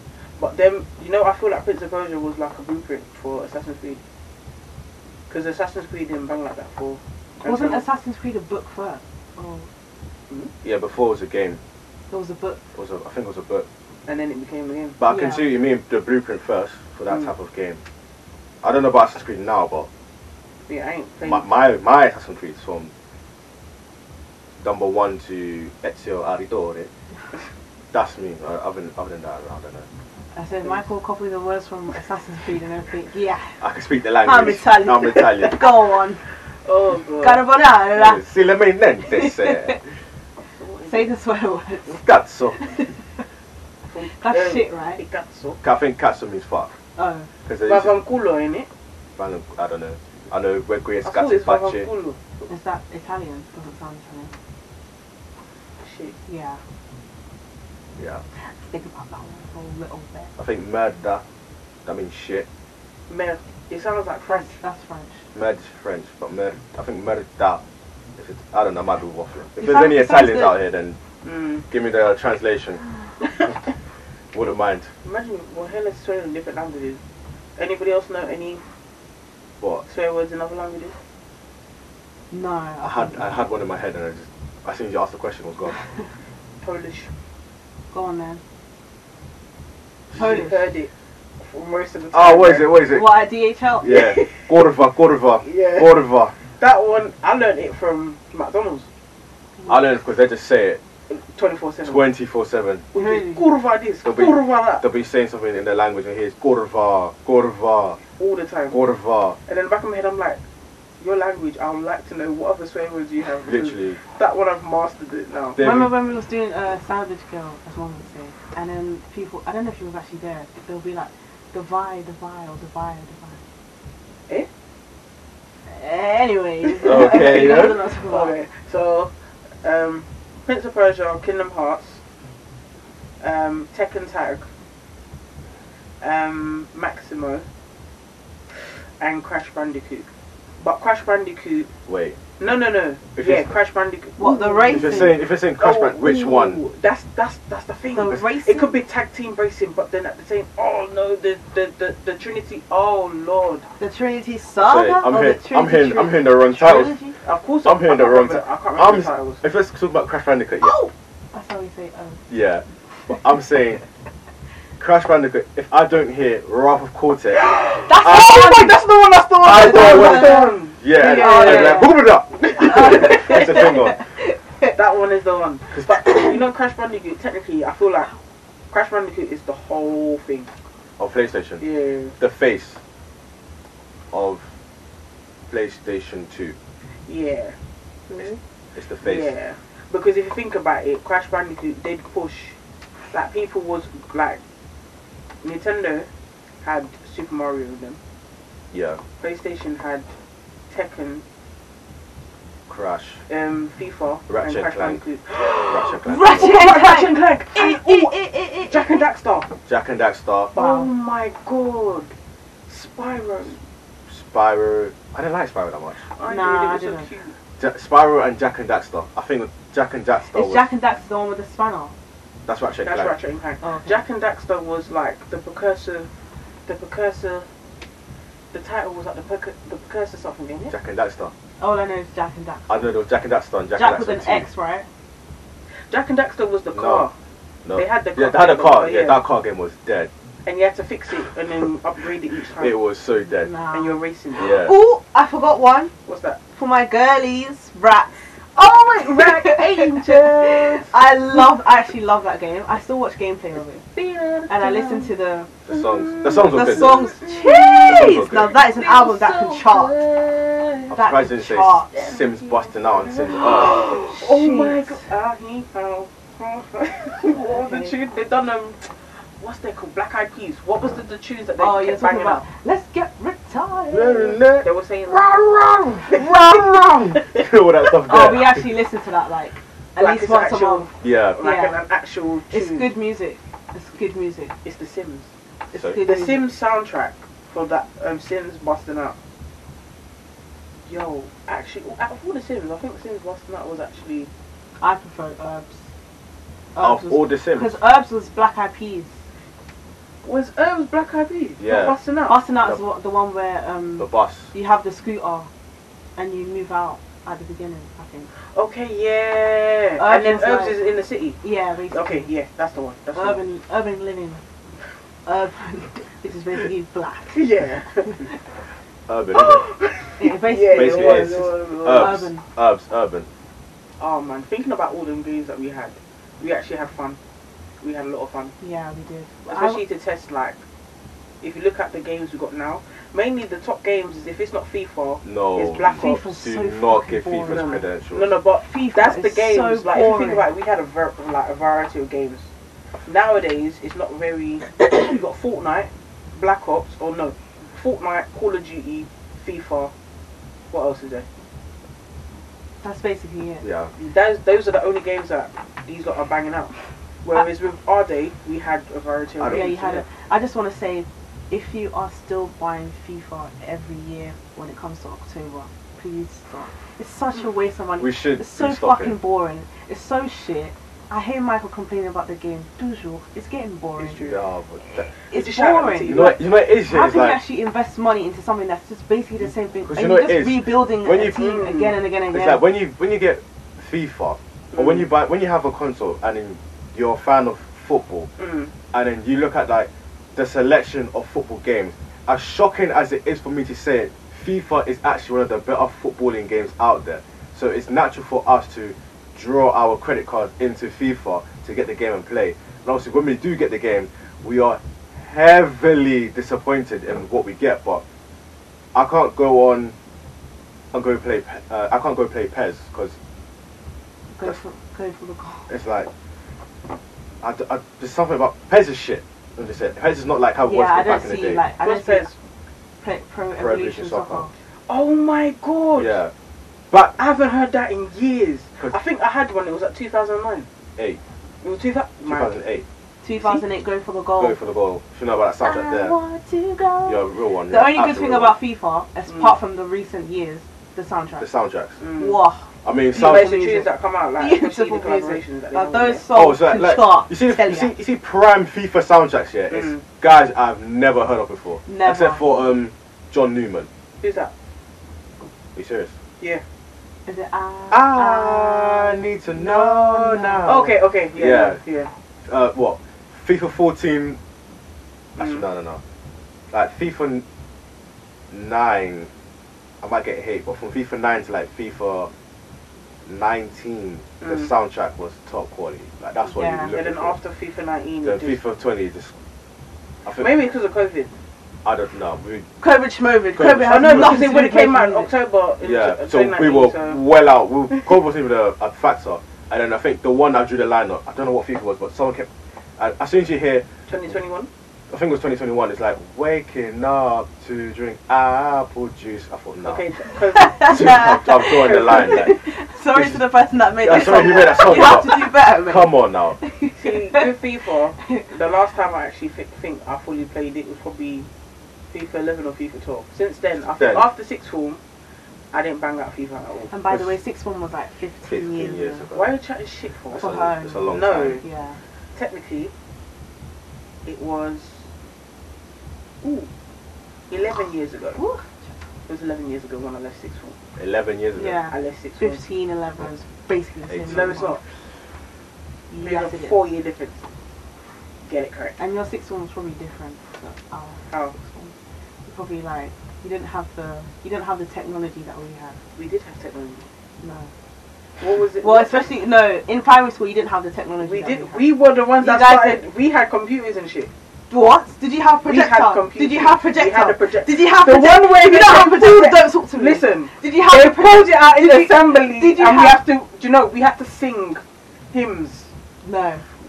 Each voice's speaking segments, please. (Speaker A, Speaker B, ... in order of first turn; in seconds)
Speaker A: 0.4-4.0, 5.3-7.8, 14.1-15.0, 20.7-21.5, 36.6-37.4, 40.5-41.1, 43.9-45.6, 47.6-48.7, 51.0-52.2, 55.8-56.1, 63.1-64.5, 71.2-71.7, 75.0-77.0, 77.6-78.6, 79.9-80.9, 86.6-87.1, 90.1-92.8, 93.9-94.3, 95.4-96.0, 96.6-98.9, 101.1-102.0, 102.9-104.8, 108.2-108.8, 109.5-110.4, 111.0-115.6, 126.8-129.1, 129.6-132.0, 133.2-134.5, 136.0-137.4, 139.0-140.1, 140.6-141.7, 142.4-153.7, 157.2-159.4, 167.3-173.7, 174.7-178.1, 178.7-180.5, 181.6-182.2, 187.1-187.6, 189.0-192.6, 193.1-194.4, 195.4-196.1, 196.6-198.0, 199.2-200.1, 200.7-201.2, 203.3-209.5, 210.5-212.1, 212.7-213.6, 216.1-217.3, 222.8-226.1, 226.7-227.4, 228.5-230.7, 235.9-237.1, 237.7-239.2, 240.4-242.7, 243.7-244.6, 246.1-246.4, 248.5-250.9, 253.9-255.1, 255.7-260.9, 261.9-268.9, 269.4-272.4, 274.6-275.3, 276.1-277.4, 280.0-282.9, 284.6-285.3, 286.0-289.2, 290.9-294.3, 300.2-302.4, 308.5-311.4, 311.9-313.4, 317.3-318.3, 319.3-322.2, 324.0-327.2, 327.8-328.5, 329.4-330.6, 331.4-336.2, 337.5-342.5, 343.0-349.9, 350.7-351.2, 354.0-360.0, 374.0-374.4, 375.3-376.4, 381.3-382.0, 384.7-385.1, 388.4-388.7, 421.8-422.4, 424.9-426.2, 426.9-430.7, 431.6-432.5, 433.4-433.6, 439.3-439.6, 442.0-442.4, 443.1-446.3, 449.7-450.0, 454.2-454.5, 460.6-462.1, 465.4-465.6, 474.4-474.7, 476.9-478.6, 480.4-481.3, 483.9-487.2, 494.1-494.7, 499.8-501.2, 501.8-502.4, 504.1-505.0, 506.9-511.5, 512.1-515.0, 515.7-516.9, 519.3-520.5, 521.0-521.6, 522.3-522.9, 524.2-525.0, 526.4-526.7, 527.5-528.4, 529.3-530.8, 531.9-532.6, 534.3-534.8, 536.2-537.4, 538.5-539.0, 541.3-541.5, 546.1-547.0, 548.4-549.3, 551.2-554.3, 555.6-565.9
Speaker B: 7.4-9.7, 12.1-12.6, 15.1-15.5, 30.4-33.6, 34.2-36.2, 37.2-38.2, 39.1-39.8, 40.9-42.0, 42.5-43.0, 44.1-45.0, 47.0-47.3, 52.5-54.3, 56.3-56.6, 58.4-60.3, 64.3-65.2, 69.6-70.6, 82.3-83.2, 87.9-88.4, 90.1-90.7, 92.9-94.1, 99.6-99.9, 102.9-103.5, 115.6-123.4, 125.7-128.3, 144.2-145.2, 147.9-148.7, 153.8-157.2, 160.6-162.2, 167.8-168.8, 169.5-172.0, 172.6-174.7, 176.1-176.3, 206.0-209.0, 210.6-210.9, 216.2-217.1, 220.3-221.9, 223.6-224.0, 231.6-232.9, 233.7-234.9, 243.3-245.9, 246.5-248.3, 249.0-253.8, 254.5-255.5, 256.5-259.9, 260.9-261.9, 263.3-265.1, 267.2-267.9, 271.6-274.4, 278.1-280.9, 281.4-281.8, 282.5-284.5, 285.7-286.4, 294.8-295.8, 296.7-299.1, 302.3-305.5, 306.2-308.3, 310.0-310.8, 311.4-312.3, 313.1-314.4, 315.2-317.4, 318.0-318.4, 320.2-322.4, 328.6-329.8, 335.8-337.9, 338.6-340.5, 352.8-353.6, 359.4-374.2, 375.2-382.6, 414.3-415.7, 420.6-422.3, 423.0-424.5, 433.2-434.6, 435.6-441.5, 442.2-447.9, 451.9-452.6, 457.3-460.8, 476.4-476.9, 482.8-485.3, 500.4-507.5, 508.2-508.5, 516.9-519.3, 520.3-522.0, 528.4-528.9, 531.5-534.8, 536.1-536.8, 539.0-541.9, 542.4-546.0, 547.4-547.7, 548.8-553.0, 554.7-563.2, 566.2-566.6
Speaker C: 10.6-11.6, 12.7-13.7, 15.0-17.8, 18.6-19.9, 21.2-22.9, 24.6-26.9, 27.9-29.9, 33.6-35.6, 37.9-39.8, 41.9-42.6, 45.6-46.7, 47.5-48.0, 49.2-51.9, 58.0-58.2, 60.4-61.2, 61.8-62.5, 65.3-67.6, 68.2-71.0, 71.7-72.8, 74.3-74.9, 82.8-85.8, 92.1-93.2, 93.8-96.3, 99.7-100.8, 101.8-102.8, 104.0-108.0, 108.7-109.4, 113.5-114.0, 115.5-115.9, 126.8-127.8, 141.9-142.2, 143.2-143.5, 144.7-146.6, 154.6-156.9, 157.6-160.8, 162.3-163.8, 164.8-168.5, 169.4-174.0, 175.7-176.0, 181.0-181.6, 182.2-182.8, 184.1-184.5, 185.5-186.6, 188.7-189.3, 198.7-199.0, 202.7-203.2, 204.3-205.0, 205.7-206.5, 209.7-210.5, 214.1-216.1, 217.6-220.7, 222.4-223.2, 230.7-231.3, 232.7-234.5, 236.7-237.1, 237.6-240.1, 242.6-243.5, 244.3-244.7, 255.7-257.1, 257.7-258.5, 260.9-263.8, 273.9-278.7, 281.0-281.4, 285.7-286.0, 296.8-297.8, 301.6-301.9, 304.0-304.5, 319.1-319.7, 320.7-323.3, 335.2-338.3, 353.6-353.9, 359.4-359.7, 368.0-369.2, 374.0-375.1, 376.0-377.4, 379.9-381.4, 382.3-388.3, 388.9-408.0, 408.9-409.9, 410.9-413.2, 415.7-416.1, 417.4-421.6, 423.6-424.5, 425.9-426.3, 432.2-432.8, 434.4-436.1, 437.1-438.5, 441.4-442.0, 442.8-443.6, 446.3-453.9, 455.7-456.1, 457.9-461.8, 462.4-464.4, 465.4-466.0, 466.7-467.4, 468.5-469.3, 470.0-472.3, 473.2-477.4, 478.2-479.3, 480.2-480.5, 481.8-482.7, 483.5-484.4, 485.8-493.9, 495.1-500.0, 500.8-502.6, 503.1-503.4, 504.0-506.6, 513.9-514.3, 517.1-517.3, 518.5-519.5, 520.3-521.6, 531.0-531.8, 534.1-534.7